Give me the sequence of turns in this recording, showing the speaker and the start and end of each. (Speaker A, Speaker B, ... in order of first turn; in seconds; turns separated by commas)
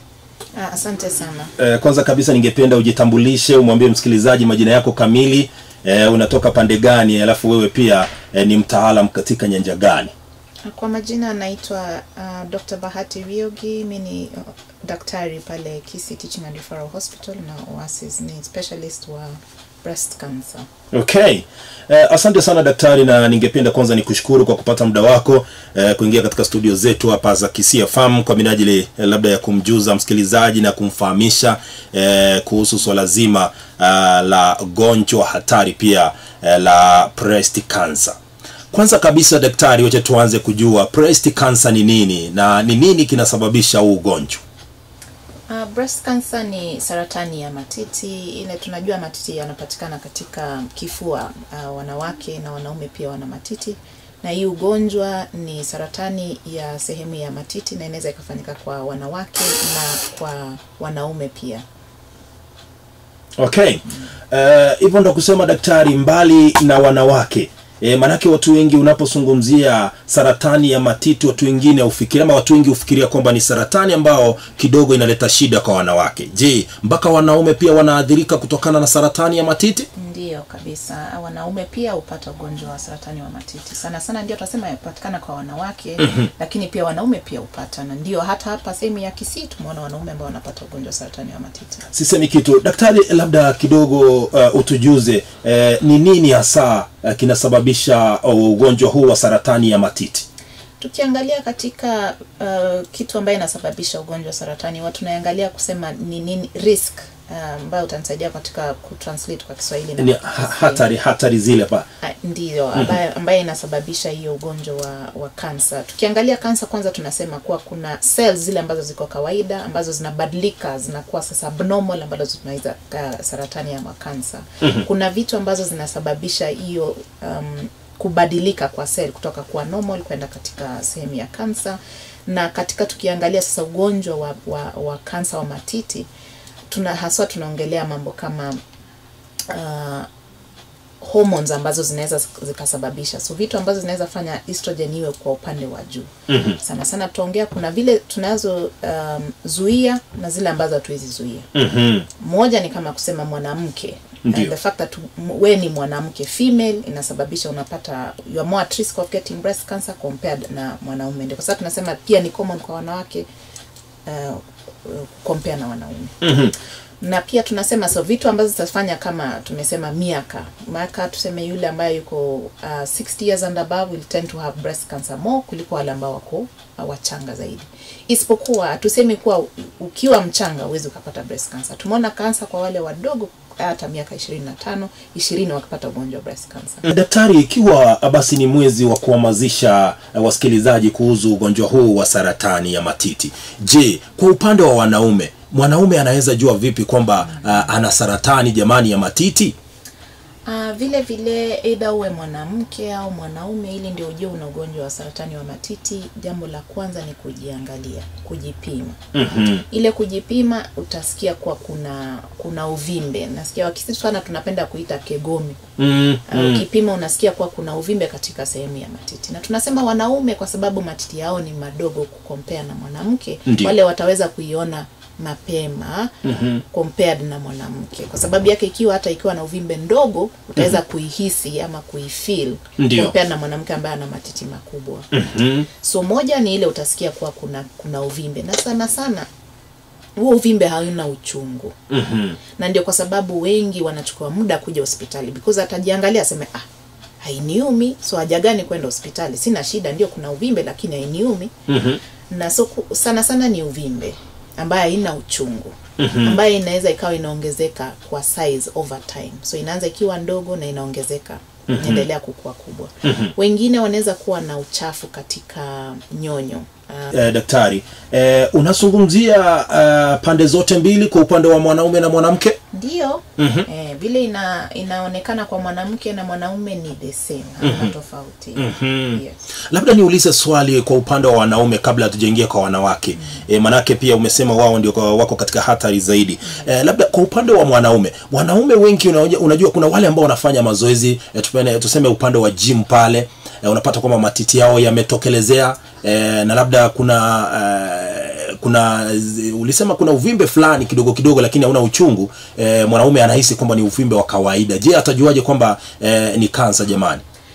Speaker A: 0.5-1.5, Speaker B: 1.6-10.1, Speaker A: 10.7-20.6, Speaker B: 20.9-38.2, Speaker B: 38.7-44.4, Speaker A: 45.5-61.6, Speaker B: 63.4-79.9, Speaker A: 80.0-91.9, Speaker B: 91.9-100.2, Speaker A: 100.8-110.8, Speaker B: 110.0-111.8, Speaker A: 112.0-136.1, Speaker A: 136.7-138.6, Speaker A: 139.5-140.1, Speaker A: 141.0-151.5, Speaker B: 146.3-146.6, Speaker B: 151.5-152.1, Speaker A: 152.2-163.3, Speaker B: 154.2-154.5, Speaker A: 164.1-166.2, Speaker B: 166.2-166.5, Speaker A: 167.0-186.8, Speaker B: 186.8-199.5, Speaker A: 200.4-215.6, Speaker B: 209.1-209.6, Speaker B: 215.8-216.6, Speaker A: 216.3-226.2, Speaker B: 223.5-223.7, Speaker B: 226.2-226.6, Speaker A: 226.7-235.1, Speaker B: 232.8-233.1, Speaker B: 235.1-235.7, Speaker A: 235.8-239.3, Speaker A: 240.2-241.7, Speaker B: 241.9-242.4, Speaker A: 242.6-246.7, Speaker A: 247.2-251.5, Speaker B: 251.7-252.0, Speaker A: 252.3-267.1, Speaker B: 256.0-256.4, Speaker B: 261.7-262.1, Speaker B: 263.0-263.3, Speaker B: 267.1-272.6, Speaker A: 272.7-279.4, Speaker B: 273.4-273.7, Speaker B: 277.6-277.9, Speaker B: 278.6-307.2, Speaker A: 283.1-283.4, Speaker A: 286.4-286.7